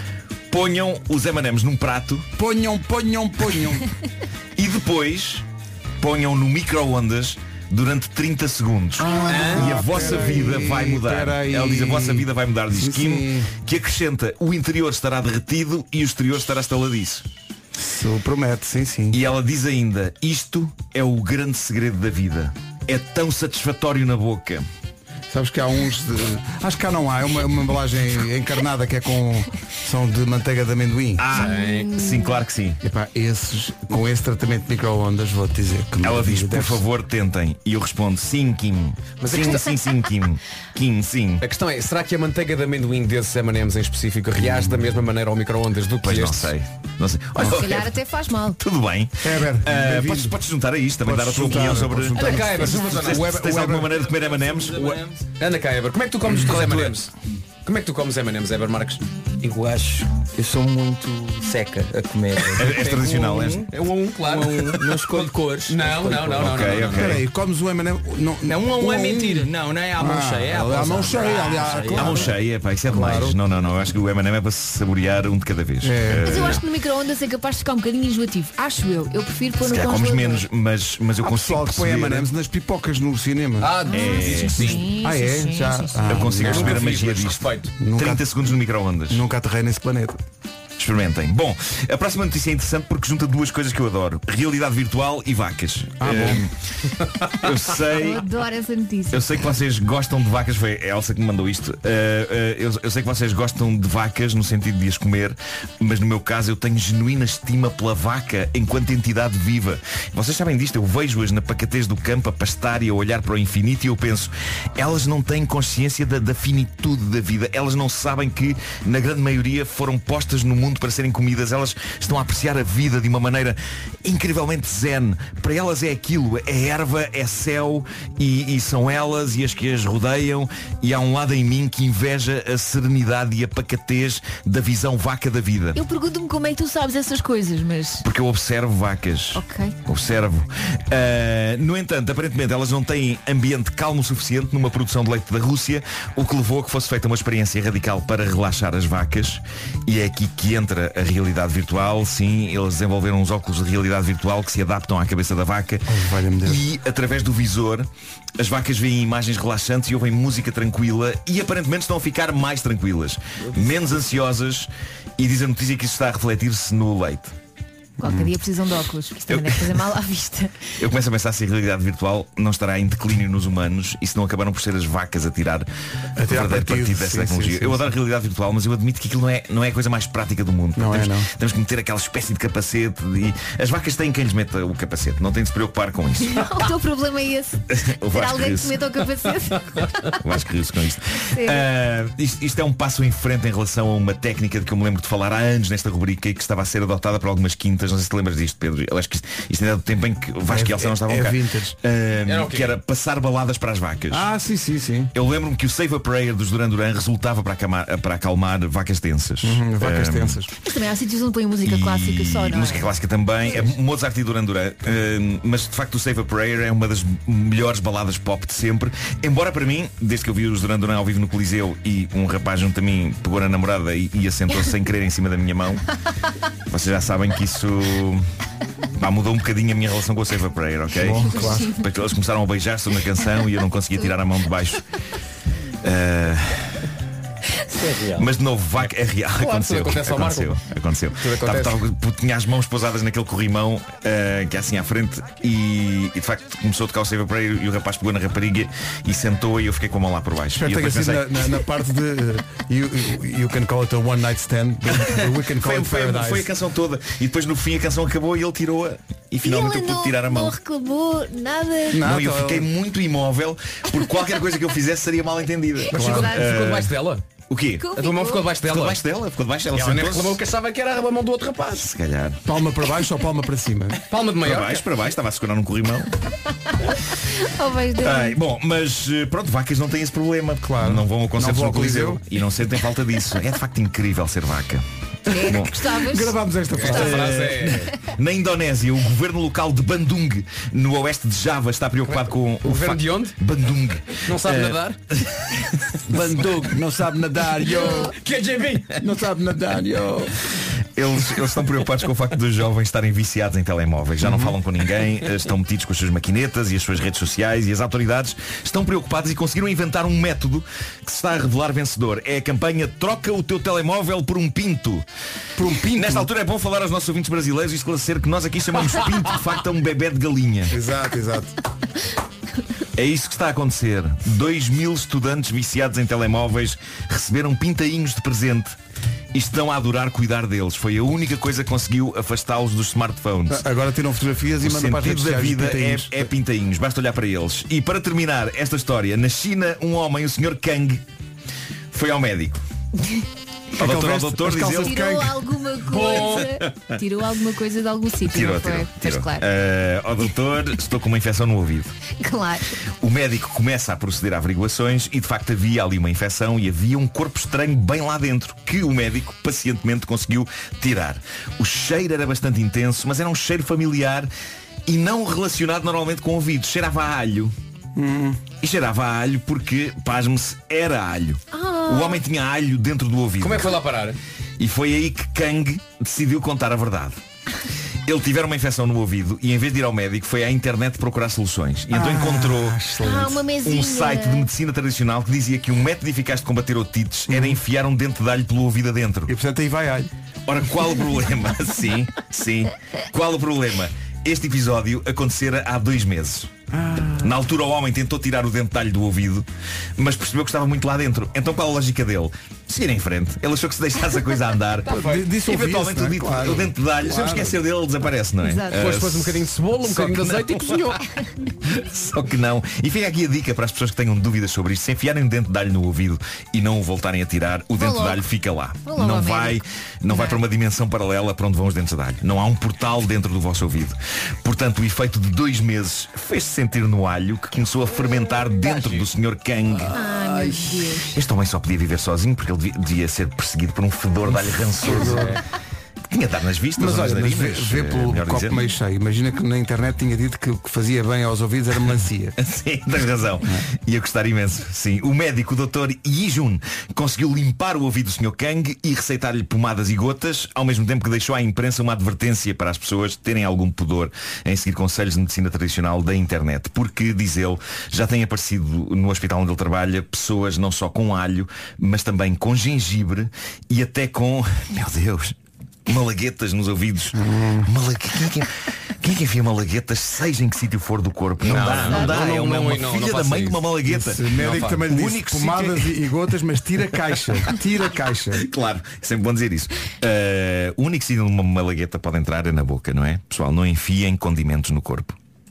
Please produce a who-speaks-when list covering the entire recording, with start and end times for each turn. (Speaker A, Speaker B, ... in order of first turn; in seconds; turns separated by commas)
Speaker A: 0.5-2.2, Speaker B: 2.4-3.9, Speaker A: 4.5-5.4, Speaker A: 6.0-17.2, Speaker B: 9.0-13.5, Speaker C: 9.3-9.7, Speaker B: 17.8-19.2, Speaker A: 19.1-24.6, Speaker B: 25.3-31.2, Speaker A: 31.2-32.8, Speaker C: 31.3-31.9, Speaker D: 31.4-32.3, Speaker B: 32.8-36.8, Speaker A: 36.0-41.4, Speaker C: 39.2-39.8, Speaker C: 41.4-46.5, Speaker A: 46.0-47.9, Speaker D: 47.4-48.6, Speaker A: 48.6-54.9, Speaker B: 49.2-50.4, Speaker B: 51.0-53.9, Speaker C: 52.1-53.8, Speaker E: 54.2-55.0, Speaker C: 55.4-57.1, Speaker C: 57.6-59.0, Speaker E: 59.4-63.6, Speaker A: 62.5-63.7, Speaker C: 62.6-67.2, Speaker E: 64.2-66.6, Speaker A: 66.3-67.2, Speaker B: 66.9-72.3, Speaker E: 68.4-72.3, Speaker C: 71.3-71.6, Speaker A: 71.9-76.6, Speaker B: 72.9-73.4, Speaker B: 75.8-76.2, Speaker D: 76.2-80.4, Speaker A: 79.6-82.3, Speaker B: 81.2-83.8, Speaker C: 83.6-84.8, Speaker D: 83.9-86.3, Speaker A: 83.9-84.8, Speaker B: 84.7-86.8, Speaker A: 86.1-89.2, Speaker C: 86.4-87.7, Speaker B: 87.8-88.2, Speaker B: 89.1-90.2, Speaker A: 90.8-96.5, Speaker B: 96.0-96.4, Speaker A: 97.2-98.2, Speaker D: 97.9-99.4, Speaker A: 99.1-135.8, Speaker D: 135.7-138.0, Speaker A: 138.0-155.9, Speaker D: 139.3-139.8, Speaker B: 155.9-156.6, Speaker A: 156.4-157.9, Speaker A: 158.4-167.3, Speaker D: 168.0-170.7, Speaker B: 168.0-168.3, Speaker A: 169.3-169.7, Speaker A: 170.8-175.7, Speaker B: 176.2-177.9, Speaker A: 176.2-186.5, Speaker B: 180.8-181.3, Speaker D: 186.2-190.2, Speaker A: 187.7-188.8, Speaker A: 190.2-204.3, Speaker D: 191.3-191.6, Speaker B: 200.5-201.8, Speaker C: 202.2-202.8, Speaker B: 204.1-205.1, Speaker A: 205.1-210.4, Speaker B: 209.4-210.5, Speaker D: 210.6-212.9, Speaker A: 211.6-225.8, Speaker A: 226.7-228.2, Speaker A: 229.0-234.8, Speaker B: 231.0-231.7, Speaker D: 231.4-231.8, Speaker A: 235.8-236.8, Speaker C: 237.8-238.2, Speaker A: 238.1-251.3, Speaker C: 238.8-240.6, Speaker C: 241.2-241.8, Speaker B: 250.5-256.5, Speaker A: 255.1-260.6, Speaker D: 259.4-262.1, Speaker B: 261.9-262.7, Speaker A: 262.0-266.9, Speaker C: 265.9-267.2, Speaker B: 265.9-266.3, Speaker D: 266.0-266.4, Speaker A: 267.5-267.9, Speaker D: 267.8-268.4, Speaker C: 267.9-269.0, Speaker A: 268.6-270.4, Speaker C: 269.7-271.9, Speaker A: 271.7-272.4, Speaker B: 272.4-274.0, Speaker C: 274.1-274.8, Speaker A: 274.4-276.1, Speaker D: 277.3-278.4, Speaker A: 278.0-284.8, Speaker B: 280.6-282.2, Speaker D: 285.3-286.4, Speaker A: 285.4-285.8, Speaker B: 286.0-287.4, Speaker C: 286.7-287.9, Speaker A: 286.9-295.4, Speaker C: 292.1-293.4, Speaker C: 294.2-295.0, Speaker B: 296.1-298.1, Speaker C: 297.8-299.0, Speaker B: 299.0-300.3, Speaker A: 300.9-315.0, Speaker B: 304.2-304.6, Speaker B: 315.6-316.3, Speaker A: 315.9-320.7, Speaker B: 320.7-321.5, Speaker A: 322.9-328.7, Speaker A: 329.3-333.6, Speaker B: 333.5-336.3, Speaker A: 334.6-341.0, Speaker A: 341.9-342.6, Speaker A: 343.8-345.0, Speaker B: 343.8-345.3, Speaker D: 344.8-349.5, Speaker C: 345.9-346.4, Speaker A: 346.1-346.4, Speaker A: 348.2-351.9, Speaker D: 352.2-352.8, Speaker A: 353.0-364.3, Speaker A: 364.9-367.5, Speaker B: 367.9-368.4, Speaker A: 368.6-373.8, Speaker D: 371.5-372.2, Speaker C: 373.4-374.2, Speaker A: 374.6-377.2, Speaker A: 378.1-382.8, Speaker B: 381.9-383.4, Speaker D: 383.0-384.5, Speaker A: 383.5-389.3, Speaker B: 387.3-387.6, Speaker B: 389.3-390.1, Speaker A: 390.5-396.5, Speaker B: 396.7-397.3, Speaker A: 397.2-399.4, Speaker A: 400.0-410.8, Speaker B: 404.9-407.6, Speaker D: 408.4-408.8, Speaker C: 408.7-411.0, Speaker A: 411.7-430.0, Speaker D: 417.8-418.2, Speaker D: 418.8-420.4, Speaker C: 428.6-429.0, Speaker C: 429.8-430.6, Speaker D: 429.9-431.1, Speaker A: 431.1-435.4, Speaker B: 434.9-435.4, Speaker C: 434.9-435.4, Speaker A: 436.1-438.6, Speaker B: 436.8-442.3, Speaker A: 442.4-468.5, Speaker B: 467.1-467.7, Speaker A: 469.0-475.9, Speaker C: 471.4-473.6, Speaker B: 473.9-478.4, Speaker C: 474.4-474.9, Speaker A: 478.3-485.1